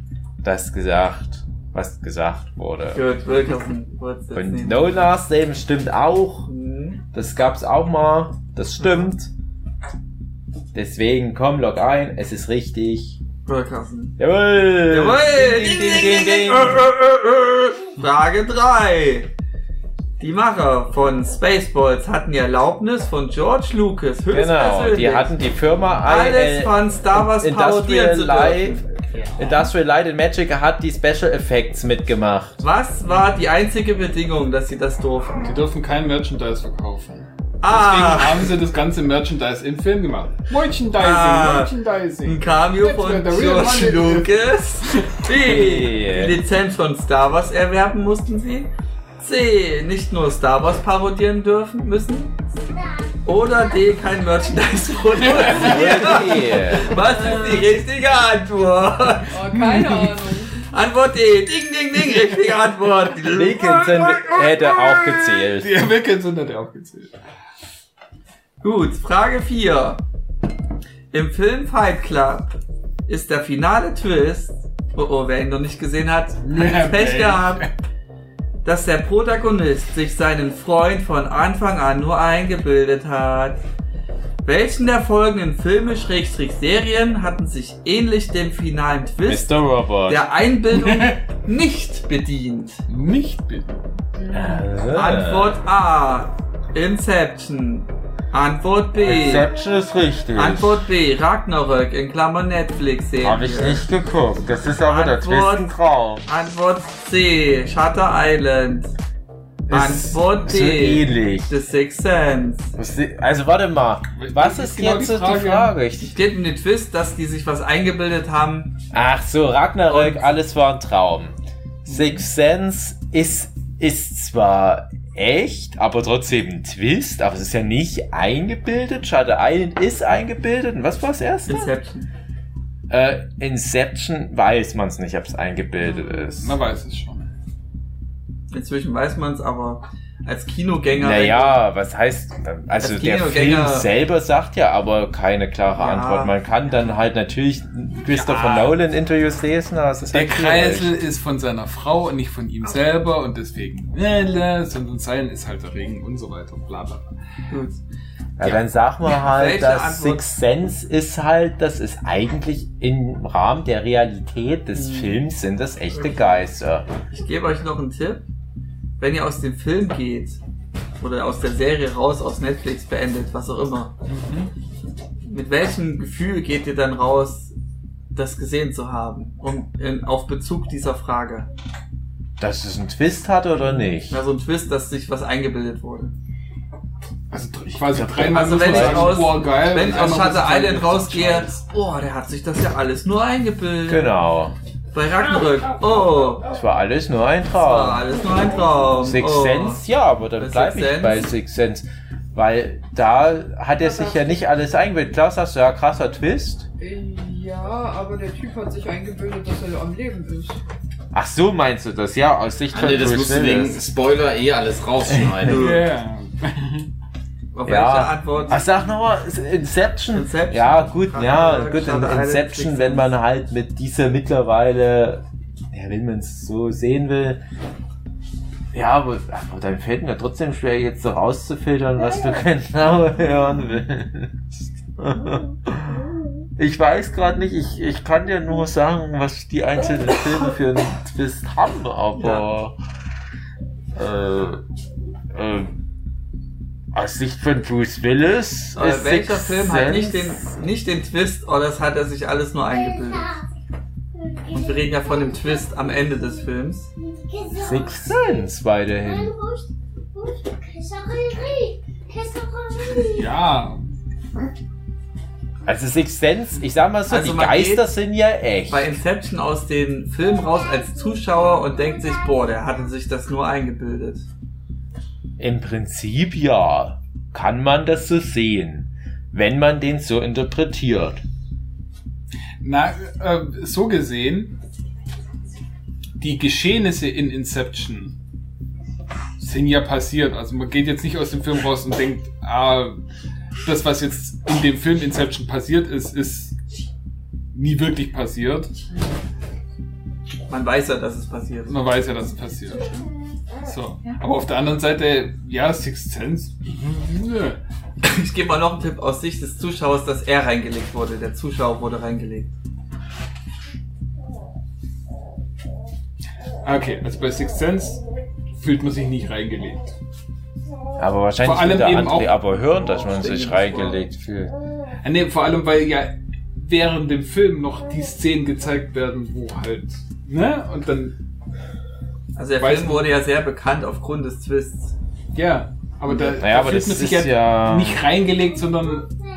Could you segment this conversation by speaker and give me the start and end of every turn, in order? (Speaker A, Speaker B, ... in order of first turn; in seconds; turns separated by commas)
Speaker A: 0.4-3.0, Speaker B: 2.9-5.1, Speaker A: 4.3-6.5, Speaker B: 6.5-7.0, Speaker A: 7.1-9.3, Speaker B: 8.8-9.1, Speaker A: 10.7-13.2, Speaker B: 13.5-14.2, Speaker A: 14.2-16.9, Speaker B: 14.9-19.3, Speaker B: 20.2-25.3, Speaker A: 24.3-28.9, Speaker B: 26.0-28.8, Speaker C: 29.1-29.4, Speaker A: 29.4-32.6, Speaker B: 32.6-35.5, Speaker C: 35.4-44.4, Speaker B: 37.6-38.5, Speaker B: 41.0-41.7, Speaker B: 42.2-52.3, Speaker A: 45.3-46.4, Speaker B: 53.2-59.4, Speaker C: 55.2-56.2, Speaker A: 55.5-57.0, Speaker D: 57.0-57.7, Speaker D: 59.3-60.7, Speaker C: 59.5-60.1, Speaker B: 60.7-64.0, Speaker A: 63.3-65.8, Speaker C: 65.6-67.2, Speaker B: 68.6-70.0, Speaker B: 71.1-72.5, Speaker B: 73.1-77.7, Speaker C: 76.4-77.7, Speaker B: 78.7-83.6, Speaker B: 84.5-92.8, Speaker A: 89.2-90.2, Speaker C: 90.8-91.1, Speaker C: 92.9-94.0, Speaker A: 94.3-95.6, Speaker B: 94.9-99.5, Speaker A: 99.0-100.8, Speaker B: 100.3-103.8, Speaker A: 103.2-106.2, Speaker B: 104.8-105.7, Speaker B: 106.3-108.9, Speaker A: 109.7-111.5, Speaker B: 109.7-112.8, Speaker A: 112.8-116.2, Speaker C: 114.2-115.7, Speaker B: 116.0-118.8, Speaker A: 118.9-131.7, Speaker B: 119.9-120.2, Speaker B: 121.9-122.2, Speaker B: 131.5-132.1, Speaker A: 132.9-136.6, Speaker C: 136.4-137.3, Speaker B: 138.5-141.6, Speaker A: 141.0-150.9, Speaker B: 142.8-143.9, Speaker B: 145.8-146.4, Speaker C: 148.1-148.8, Speaker C: 150.1-157.1, Speaker B: 157.5-157.8, Speaker A: 158.4-166.9, Speaker B: 159.1-160.3, Speaker B: 164.7-165.2, Speaker B: 165.9-166.4, Speaker B: 167.1-168.2, Speaker B: 169.0-170.4, Speaker B: 171.0-173.9, Speaker C: 174.1-174.5, Speaker B: 175.2-177.5, Speaker B: 178.1-181.5, Speaker A: 182.4-184.2, Speaker B: 184.1-186.1, Speaker C: 187.3-191.6, Speaker A: 187.9-189.3, Speaker B: 188.3-194.1, Speaker A: 193.9-194.6, Speaker B: 194.9-196.4, Speaker A: 196.4-198.1, Speaker B: 197.6-199.8, Speaker A: 199.0-206.7, Speaker B: 200.4-201.3, Speaker D: 206.8-210.6, Speaker A: 211.1-213.8, Speaker E: 212.7-215.7, Speaker A: 215.1-215.4, Speaker B: 215.4-215.9, Speaker C: 215.5-216.9, Speaker B: 217.5-218.6, Speaker A: 217.7-227.4, Speaker B: 220.1-223.1, Speaker A: 228.7-236.0, Speaker A: 236.6-242.8, Speaker B: 242.2-242.4, Speaker A: 243.9-244.6, Speaker A: 245.3-245.8, Speaker A: 246.9-250.5, Speaker B: 248.8-253.4, Speaker B: 254.5-256.9, Speaker A: 257.5-259.4, Speaker C: 263.0-263.8, Speaker A: 265.7-268.9, Speaker B: 267.1-267.9, Speaker B: 268.7-274.2, Speaker A: 275.4-281.2, Speaker C: 282.6-284.6, Speaker C: 286.2-288.2, Speaker C: 289.4-293.0, Speaker C: 293.6-296.6, Speaker C: 297.5-298.7, Speaker B: 300.5-301.8, Speaker C: 301.7-303.1, Speaker C: 303.6-307.6, Speaker B: 308.0-312.5, Speaker C: 316.6-318.0, Speaker C: 318.6-319.9, Speaker A: 321.0-324.6, Speaker C: 321.4-322.4, Speaker B: 322.8-324.1, Speaker C: 325.0-331.2, Speaker B: 332.4-334.9, Speaker C: 332.6-333.1, Speaker C: 335.3-339.1, Speaker A: 336.3-338.0